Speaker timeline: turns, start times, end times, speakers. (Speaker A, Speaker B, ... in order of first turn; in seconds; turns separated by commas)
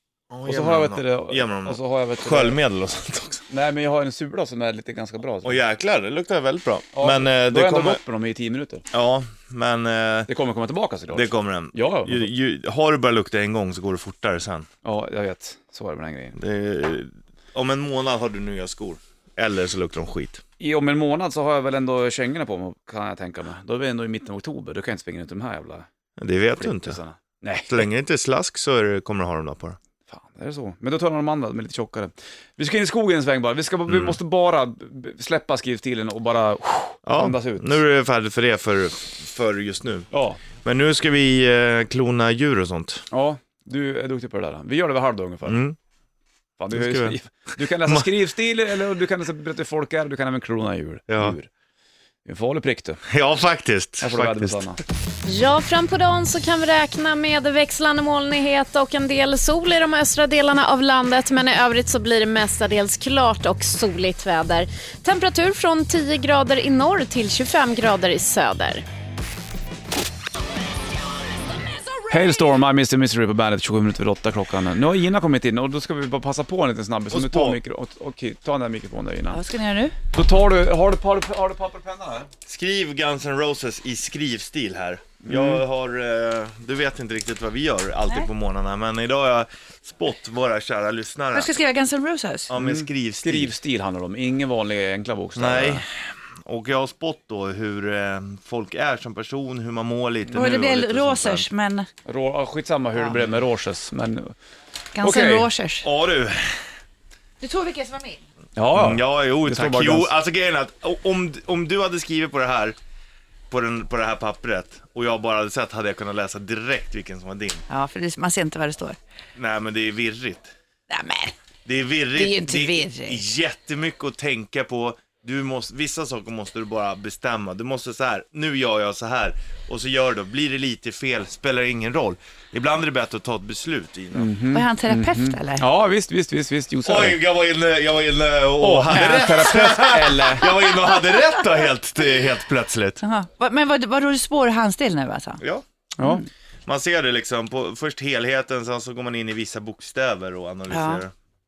Speaker A: 0.3-3.5, Speaker B: 0.5-2.6, Speaker B: 3.5-5.6, Speaker A: 5.4-8.0, Speaker B: 6.9-8.8, Speaker A: 8.9-10.3, Speaker B: 10.3-12.3, Speaker A: 11.1-14.7, Speaker B: 14.8-16.4, Speaker A: 16.4-20.4, Speaker B: 20.6-25.9, Speaker A: 26.2-27.0, Speaker B: 26.6-27.9, Speaker A: 27.7-29.8, Speaker B: 30.1-37.8, Speaker A: 33.9-34.2, Speaker A: 37.0-40.1, Speaker B: 40.1-40.4, Speaker A: 40.6-43.0, Speaker B: 43.1-45.6, Speaker A: 45.5-45.8, Speaker B: 46.6-51.5, Speaker A: 46.7-48.1, Speaker A: 51.1-51.4, Speaker B: 52.2-53.0, Speaker A: 53.0-54.7, Speaker B: 54.0-54.8, Speaker C: 55.3-68.8, Speaker B: 72.1-79.4, Speaker A: 77.1-77.6, Speaker D: 79.3-80.0, Speaker B: 80.1-82.3, Speaker A: 82.5-91.5, Speaker B: 85.2-85.6, Speaker D: 91.3-92.5, Speaker A: 92.5-93.5, Speaker B: 92.5-95.8, Speaker A: 95.4-101.5, Speaker D: 100.3-101.9, Speaker B: 102.0-104.3, Speaker D: 105.0-105.9, Speaker B: 105.0-105.5, Speaker A: 105.8-106.7, Speaker D: 107.4-108.2, Speaker B: 108.6-110.1, Speaker A: 108.7-112.8, Speaker A: 113.5-117.6, Speaker D: 117.7-119.0, Speaker A: 119.3-120.5, Speaker D: 120.9-121.3, Speaker A: 121.7-134.3, Speaker D: 122.2-123.2, Speaker B: 134.1-137.2, Speaker D: 134.5-135.7, Speaker A: 136.8-143.0, Speaker B: 138.6-140.5, Speaker D: 140.8-141.4, Speaker D: 143.0-145.4, Speaker A: 145.4-145.7, Speaker B: 146.0-146.3, Speaker A: 146.7-151.1, Speaker D: 150.7-151.0